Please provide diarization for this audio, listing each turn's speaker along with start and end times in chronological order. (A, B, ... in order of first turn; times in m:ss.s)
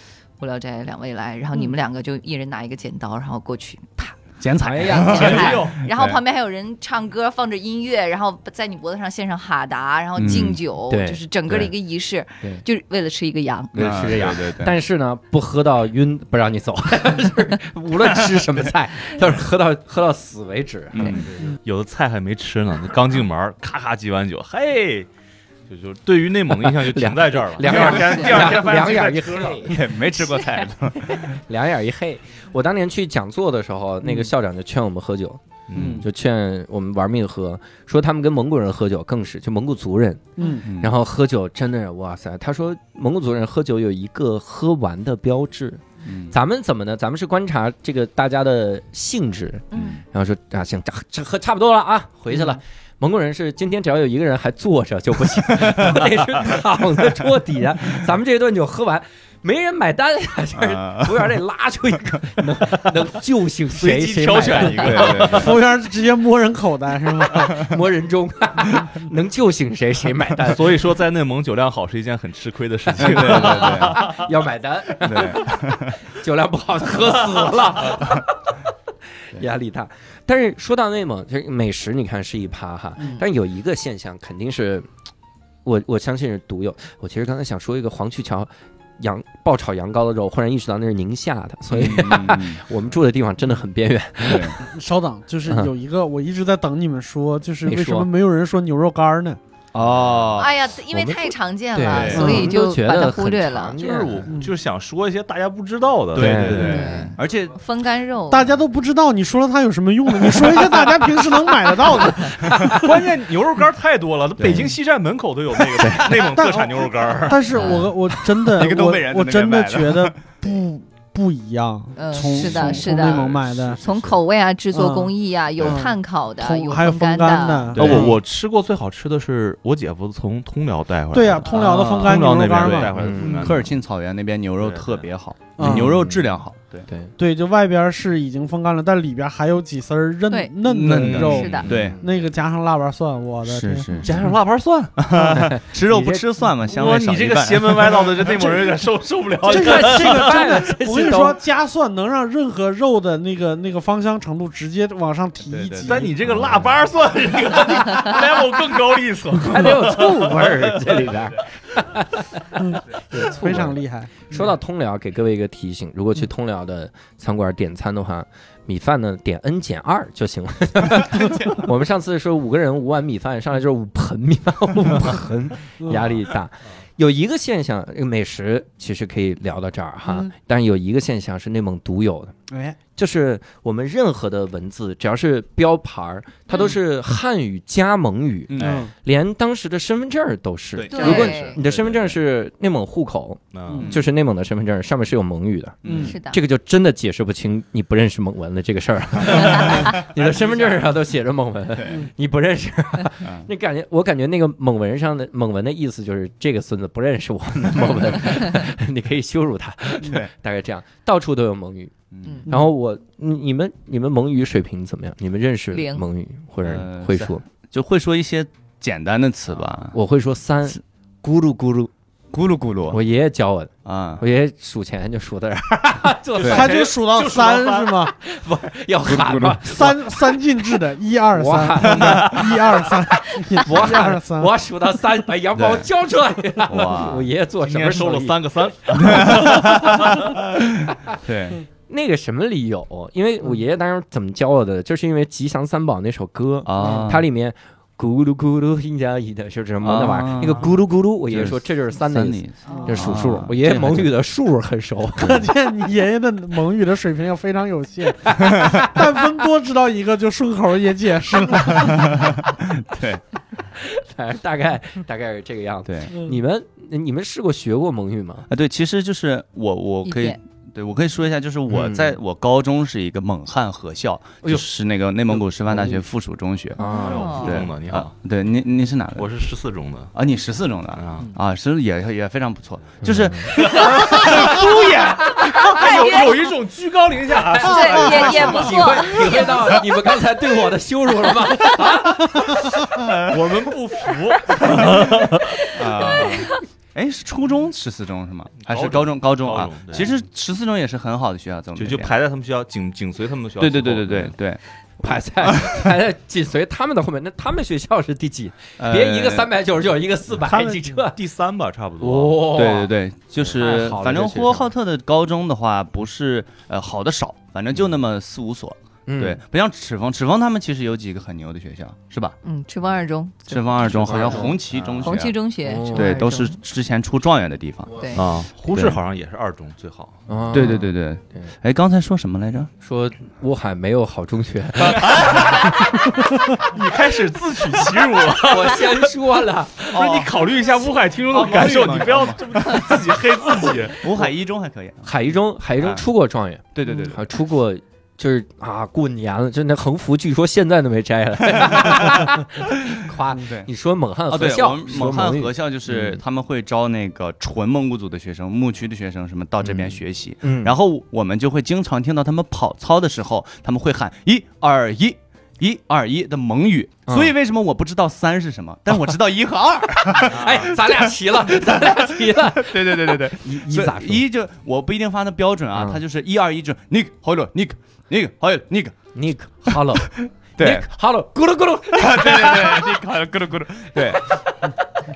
0:00.4-0:13.9 A
0:04.4-0:06.2 B
0:04.6-0:05.4 C
0:05.0-0:05.8 D
0:10.2-0:10.6 B
0:10.9-0:11.7 C
0:13.7-0:14.8 B
0:13.7-0:21.2 C
0:20.9-0:21.3 B
0:21.0-0:25.1 D
0:25.7-0:29.7 D
0:26.5-0:29.8 C
0:29.6-0:31.4 B
0:31.1-0:35.4 C
0:34.0-0:34.3 E
0:35.7-0:36.1 D
0:35.8-0:36.0 B
0:35.8-0:36.0 E
0:36.0-1:05.5 C
0:40.4-0:40.7 E
0:40.6-0:40.9 B
0:46.0-0:46.3 B
0:49.7-0:50.0 B
1:00.6-1:01.2 B
1:03.7-1:05.5 D
1:04.3-1:05.6 B
1:05.1-1:07.5 E
1:07.3-1:10.8 C
1:10.4-1:14.1 D
1:13.0-1:14.2 B
1:13.0-1:18.6 C
1:15.0-1:16.0 B
1:19.3-1:24.9 C
1:25.6-1:34.6 C
1:31.7-1:32.6 B
1:34.2-1:34.6 B
1:34.6-1:39.4 E
1:35.5-1:35.7 C
1:37.6-1:38.1 C
1:39.7-1:40.5 B
1:39.8-1:40.2 D
1:40.4-1:43.8 A
1:40.9-1:44.3 C
1:41.9-1:42.3 B
1:42.1-1:42.5 E
1:43.8-1:46.8 D
1:46.1-1:47.6 B
1:46.2-1:47.1 C
1:46.5-1:48.5 A
1:48.3-1:52.4 E
1:52.4-1:52.8 B
1:52.8-1:57.8 D
1:54.4-1:54.8 B
1:55.8-1:56.4 C
1:56.3-2:03.8 E
1:57.5-2:00.5 B
2:02.0-2:03.2 A
2:02.2-2:03.8 B
2:03.1-2:04.1 D
2:03.8-2:07.9 A
2:04.7-2:08.2 E
2:07.8-2:13.8 D
2:07.8-2:08.1 B
2:11.1-2:12.9 E
2:11.5-2:16.9 B
2:12.9-2:13.6 C
2:14.6-2:15.1 D
2:15.6-2:16.0 E
2:15.6-2:16.3 C
2:16.9-2:17.1 C
2:17.2-2:23.9 E
2:20.3-2:20.6 A
2:20.6-2:22.0 B
2:20.8-2:21.8 D
2:21.2-2:21.7 A
2:21.6-2:22.1 C
2:23.5-2:24.3 B
2:24.0-2:25.0 D
2:25.0-2:28.4 B
2:25.2-2:26.2 C
2:26.7-2:30.6 D
2:29.4-2:31.4 C
2:29.5-2:36.2 E
2:35.5-2:36.0 B
2:35.8-2:41.1 D
2:36.3-2:36.7 C
2:39.4-2:43.8 C
2:42.6-2:44.3 E
2:44.3-3:02.3 C
2:55.8-2:56.1 E
3:02.5-3:02.8 E
3:03.0-3:31.9 C
3:08.5-3:08.9 B
3:08.6-3:08.9 E
3:10.8-3:11.6 B
3:10.9-3:11.6 A
3:11.6-3:12.2 D
3:13.5-3:13.9 D
3:13.8-3:14.0 B
3:15.8-3:16.2 B
3:15.9-3:16.1 E
3:16.0-3:16.4 A
3:19.2-3:20.9 B
3:19.3-3:19.7 A
3:21.8-3:22.1 B
3:23.2-3:23.5 B
3:32.1-3:32.5 B
3:32.5-3:37.4 C
3:35.7-3:36.0 A
3:36.6-3:40.0 B
3:39.9-3:41.9 C
3:42.3-3:43.0 B
3:42.9-3:46.7 C
3:43.8-3:44.2 B
3:46.4-3:46.7 B
3:46.4-3:48.0 D
3:46.4-3:48.2 E
3:48.1-3:50.7 C
3:49.0-3:49.6 B
3:49.7-3:54.5 E
3:51.3-4:00.1 C
3:51.9-3:52.4 B
3:52.0-3:52.3 D
3:55.6-3:55.9 B
3:56.7-3:57.3 B
3:57.6-4:00.3 D
3:59.0-4:01.6 B
4:01.9-4:15.5 C
4:06.7-4:07.2 B
4:09.8-4:10.7 B
4:11.2-4:14.1 B
4:12.7-4:13.0 A
4:12.7-4:13.1 E
4:15.2-4:22.1 E
4:18.5-4:18.8 B
4:21.4-4:21.8 C
4:21.8-4:23.2 B
4:23.8-4:28.5 C
4:25.9-4:26.1 B
4:26.1-4:26.4 E
4:28.5-4:36.8 B
4:30.0-4:30.4 A
4:31.7-4:32.2 C
4:36.8-4:37.5 C
4:36.8-4:37.5 A
4:37.0-4:38.1 D
4:37.4-4:39.3 B
4:39.2-4:40.1 D
4:40.1-4:45.3 B
4:41.0-4:41.3 D
4:43.0-4:44.7 C
4:43.5-4:49.3 D
4:45.6-4:46.3 A
4:47.3-4:52.8 C
4:47.6-4:49.7 A
4:53.0-4:53.4 B
4:53.3-4:55.6 D
4:54.6-5:02.2 B
4:58.6-5:00.1 D
5:01.8-5:04.3 D
5:03.6-5:04.6 B
5:05.0-5:11.2 C
5:05.4-5:05.9 B
5:08.8-5:09.5 B
5:10.3-5:12.4 D
5:12.0-5:12.9 C
5:12.5-5:22.4 B
5:13.5-5:14.7 C
5:19.1-5:19.4 C
5:22.4-5:23.6 A
5:23.5-5:25.4 B
5:23.8-5:26.2 C
5:25.0-5:26.6 A
5:25.9-5:28.1 B
5:27.9-5:28.2 A
5:28.1-5:30.2 D
5:28.7-5:29.0 B
5:30.3-5:31.5 C
5:30.5-5:32.7 B
5:32.8-5:35.7 C
5:36.7-5:39.1 D
5:38.4-5:40.0 C
5:39.8-5:44.3 D
5:39.9-5:40.4 B
5:41.3-5:43.0 B
5:44.0-5:45.1 B
5:45.0-5:56.2 C
5:46.8-5:47.3 B
5:51.7-5:52.2 B
5:52.9-5:53.7 B
5:54.3-6:11.1 B
5:59.6-6:00.8 C
6:07.1-6:07.3 C
6:10.0-6:14.2 C
6:11.6-6:12.0 B
6:12.5-6:19.0 B
6:15.7-6:16.0 C
6:19.2-6:23.0 C
6:19.7-6:20.9 B
6:22.0-6:24.4 B
6:24.0-6:24.7 C